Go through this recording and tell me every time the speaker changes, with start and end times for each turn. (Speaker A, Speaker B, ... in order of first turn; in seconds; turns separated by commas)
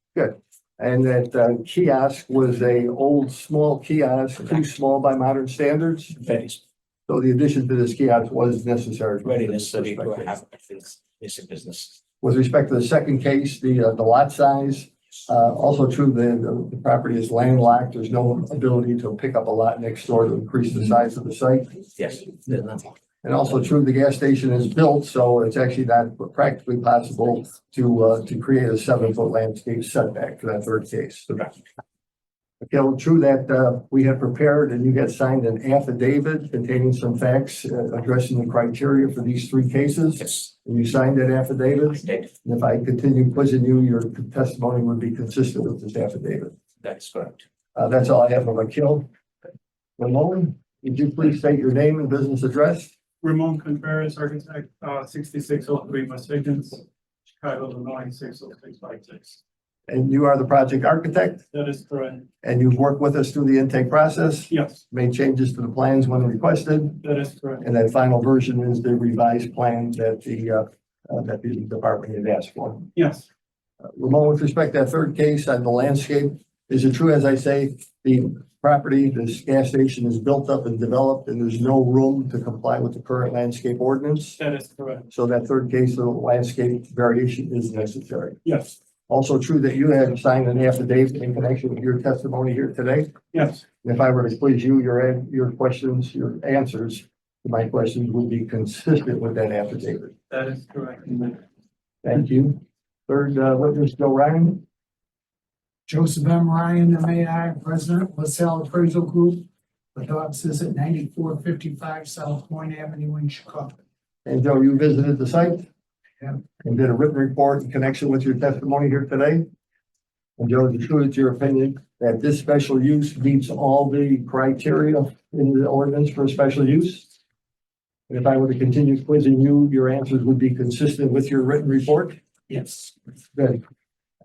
Speaker A: 0.1-6.2, Speaker B: 6.2-6.6, Speaker A: 7.1-10.3, Speaker B: 9.2-12.0, Speaker A: 12.2-22.2, Speaker B: 22.0-22.9, Speaker A: 23.2-31.5, Speaker A: 32.6-46.5, Speaker B: 46.8-47.4, Speaker A: 47.7-49.1, Speaker A: 50.0-52.9, Speaker C: 53.2-56.8, Speaker C: 57.4-59.4, Speaker A: 59.9-61.4, Speaker C: 61.5-62.2, Speaker A: 62.4-67.0, Speaker C: 64.5-64.8, Speaker C: 67.0-67.7, Speaker A: 67.6-72.9, Speaker C: 73.0-73.2, Speaker A: 73.8-84.4, Speaker C: 84.4-85.1, Speaker A: 85.1-88.4, Speaker C: 88.4-88.7, Speaker A: 89.1-93.2, Speaker C: 93.3-93.6, Speaker A: 93.8-100.1, Speaker C: 100.3-101.4, Speaker A: 102.0-104.6, Speaker D: 105.9-113.7, Speaker A: 114.2-115.7, Speaker A: 116.6-119.5, Speaker A: 120.4-127.1, Speaker A: 128.1-132.2, Speaker A: 133.3-133.6